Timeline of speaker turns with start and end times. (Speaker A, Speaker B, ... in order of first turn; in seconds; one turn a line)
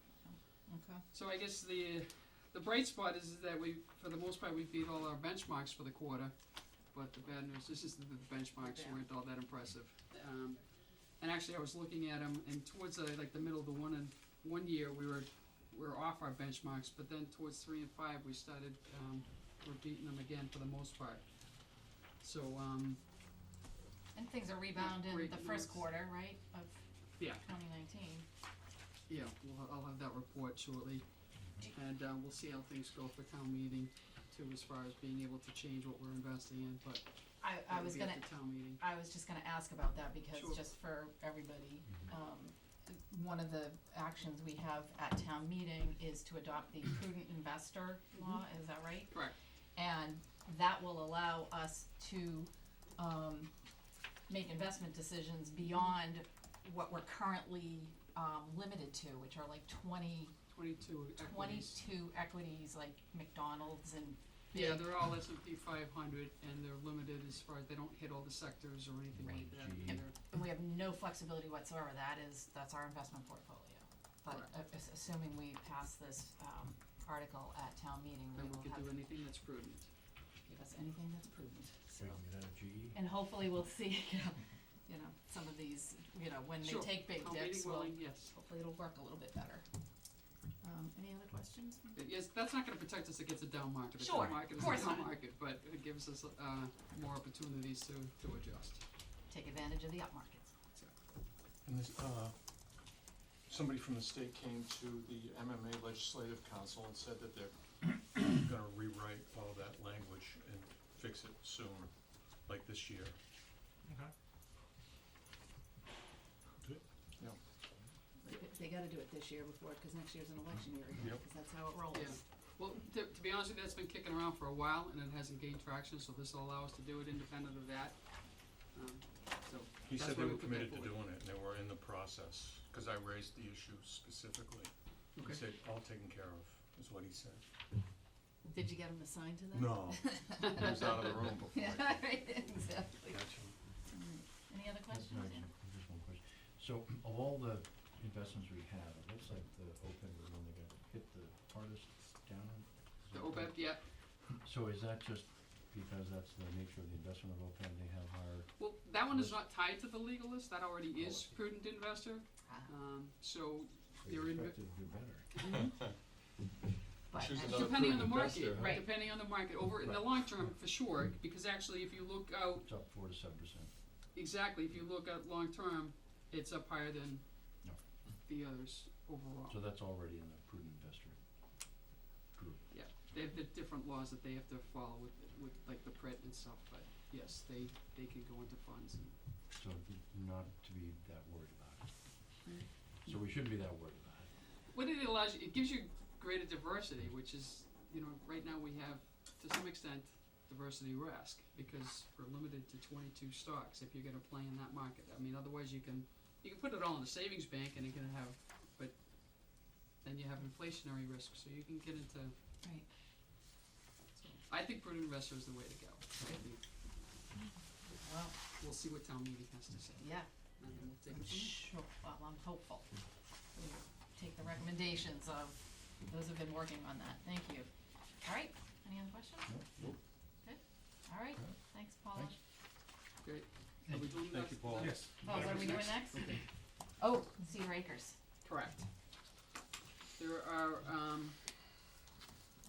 Speaker A: 0.2-1.0
Speaker B: 1.1-23.0
Speaker A: 8.6-9.0
Speaker A: 24.1-28.3
Speaker B: 24.7-25.9
Speaker B: 29.1-38.8
Speaker A: 37.4-53.5
Speaker B: 40.3-40.6
Speaker B: 49.1-49.4
Speaker A: 54.3-60.4
Speaker B: 60.5-61.8
Speaker A: 61.2-65.0
Speaker B: 64.5-70.1
Speaker C: 69.2-70.0
Speaker A: 69.2-79.0
Speaker B: 74.3-74.5
Speaker B: 78.3-79.9
Speaker A: 80.4-82.2
Speaker C: 82.0-83.0
Speaker A: 82.9-89.7
Speaker B: 86.6-88.3
Speaker A: 90.6-92.0
Speaker B: 92.0-98.8
Speaker A: 94.0-95.1
Speaker A: 99.3-100.5
Speaker D: 101.6-102.3
Speaker D: 103.5-113.1
Speaker D: 113.9-114.1
Speaker D: 116.6-117.4
Speaker A: 118.2-122.2
Speaker D: 121.0-121.2
Speaker B: 121.9-131.0
Speaker D: 129.8-137.4
Speaker A: 138.4-145.5
Speaker D: 139.5-142.1
Speaker D: 143.1-143.6
Speaker C: 144.9-159.4
Speaker B: 153.1-153.9
Speaker B: 158.6-164.6
Speaker C: 160.9-161.4
Speaker A: 162.4-162.7
Speaker C: 164.0-165.6
Speaker A: 165.4-165.8
Speaker A: 167.1-168.9
Speaker D: 167.1-168.9
Speaker B: 167.4-172.7
Speaker C: 169.8-170.4
Speaker C: 172.6-173.7
Speaker B: 174.1-177.6
Speaker B: 178.2-179.6
Speaker C: 179.5-181.2
Speaker C: 182.3-182.7
Speaker B: 182.7-189.2
Speaker C: 189.5-192.3
Speaker C: 193.0-194.3
Speaker B: 194.7-212.3
Speaker B: 214.4-216.6
Speaker A: 217.9-218.4
Speaker B: 218.6-221.7
Speaker A: 220.0-220.3
Speaker A: 221.1-222.9
Speaker A: 223.5-227.7
Speaker A: 228.2-229.6
Speaker C: 229.4-229.8
Speaker A: 230.4-232.4
Speaker B: 233.2-236.3
Speaker D: 233.9-236.3
Speaker A: 235.0-238.2
Speaker B: 238.4-238.9
Speaker B: 240.2-241.4